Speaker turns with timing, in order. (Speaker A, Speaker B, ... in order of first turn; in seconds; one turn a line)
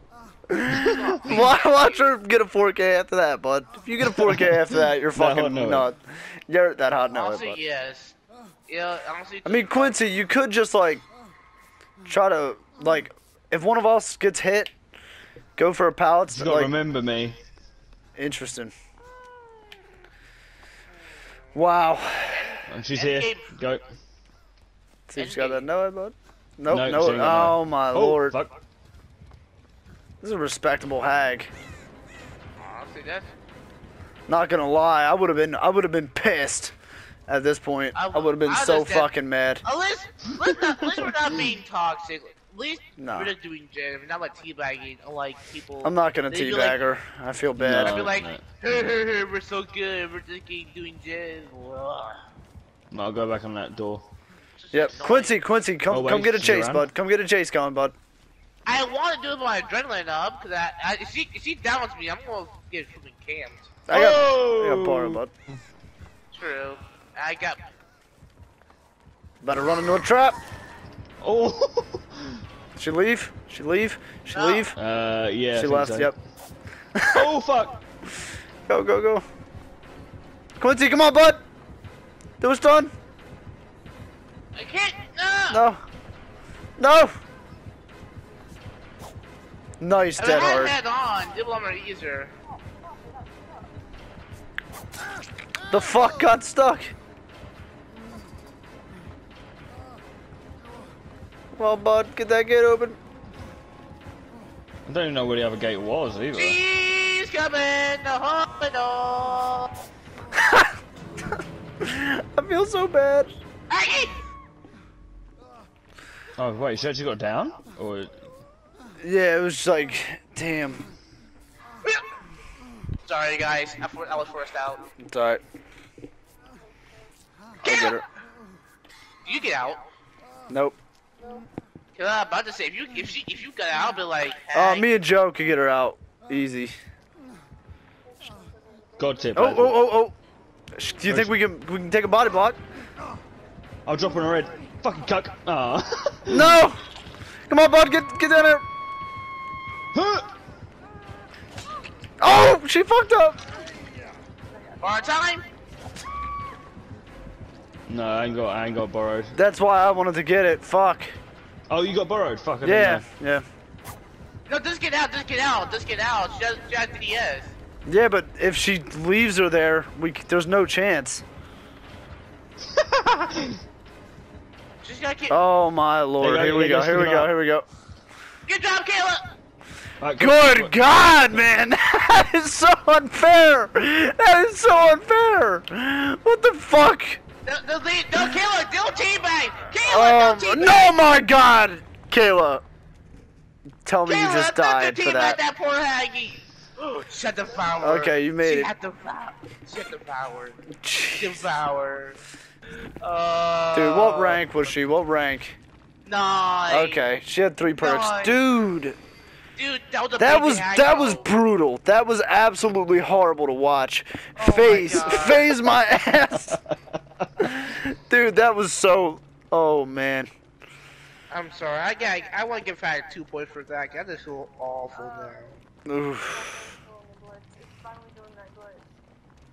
Speaker A: 0.5-7.6
Speaker B: 0.7-1.3
Speaker B: 4.1-5.9
Speaker C: 7.1-8.2
Speaker C: 8.7-10.0
Speaker A: 9.4-11.0
Speaker A: 12.1-14.7
Speaker A: 15.6-16.7
Speaker B: 16.3-17.4
Speaker A: 18.1-18.7
Speaker A: 21.5-22.5
Speaker C: 22.3-23.5
Speaker B: 22.7-23.8
Speaker A: 25.1-28.4
Speaker C: 25.2-25.6
Speaker B: 26.7-28.5
Speaker A: 30.2-31.5
Speaker C: 32.6-33.3
Speaker A: 34.3-36.7
Speaker A: 37.3-39.6
Speaker C: 37.9-39.1
Speaker C: 39.6-46.8
Speaker A: 43.0-43.3
Speaker A: 45.8-48.1
Speaker B: 47.6-48.4
Speaker C: 47.8-52.2
Speaker B: 52.9-54.0
Speaker C: 54.6-55.4
Speaker A: 54.7-57.9
Speaker B: 55.9-56.9
Speaker C: 58.6-63.7
Speaker A: 63.9-65.3
Speaker B: 63.9-65.6
Speaker C: 66.3-67.7
Speaker A: 69.4-70.4
Speaker B: 71.2-72.4
Speaker A: 72.8-74.8
Speaker C: 74.3-74.7
Speaker B: 74.7-76.1
Speaker A: 75.5-76.1
Speaker A: 77.0-77.3
Speaker B: 77.1-77.8
Speaker A: 78.7-79.2
Speaker A: 80.6-81.4
Speaker A: 82.4-82.9
Speaker C: 84.5-85.6
Speaker A: 85.5-85.8
Speaker A: 86.8-87.1
Speaker A: 89.8-90.7
Speaker C: 90.2-92.3
Speaker A: 95.7-96.9
Speaker A: 101.5-103.0
Speaker B: 104.8-106.6
Speaker C: 106.3-109.7
Speaker A: 110.3-110.7
Speaker A: 111.8-113.3
Speaker C: 113.7-114.2
Speaker B: 116.4-118.1
Speaker A: 119.0-120.9
Speaker C: 123.0-124.8
Speaker A: 125.0-125.4
Speaker A: 127.6-128.0
Speaker C: 127.6-128.0
Speaker C: 129.2-129.8
Speaker A: 130.5-130.8
Speaker C: 131.9-134.9
Speaker A: 134.5-136.7
Speaker B: 139.0-139.8
Speaker A: 139.3-140.1
Speaker A: 140.7-142.6
Speaker B: 141.1-141.3
Speaker B: 143.8-146.6
Speaker A: 146.3-146.8
Speaker A: 147.5-148.6
Speaker B: 149.9-150.2
Speaker A: 152.2-153.4
Speaker C: 154.8-155.4
Speaker B: 157.9-159.3
Speaker A: 159.3-161.2
Speaker B: 161.7-163.0
Speaker A: 162.6-163.4
Speaker C: 164.5-167.5
Speaker A: 167.8-171.2
Speaker B: 172.8-173.6
Speaker C: 174.8-175.4
Speaker A: 175.3-177.7
Speaker B: 176.2-177.3
Speaker C: 178.5-179.2
Speaker B: 180.0-181.4
Speaker A: 180.2-187.2
Speaker C: 187.4-190.9
Speaker A: 189.8-192.6
Speaker A: 193.8-195.4
Speaker C: 194.0-200.6
Speaker A: 197.8-198.7
Speaker A: 200.8-201.4
Speaker C: 201.2-202.2
Speaker C: 203.0-204.4
Speaker A: 203.7-205.6
Speaker C: 206.0-207.0
Speaker A: 206.7-208.9
Speaker C: 207.8-208.4
Speaker C: 209.6-211.2
Speaker A: 210.2-216.6
Speaker C: 214.4-215.5
Speaker A: 217.4-220.3
Speaker C: 221.3-225.5
Speaker A: 225.8-226.6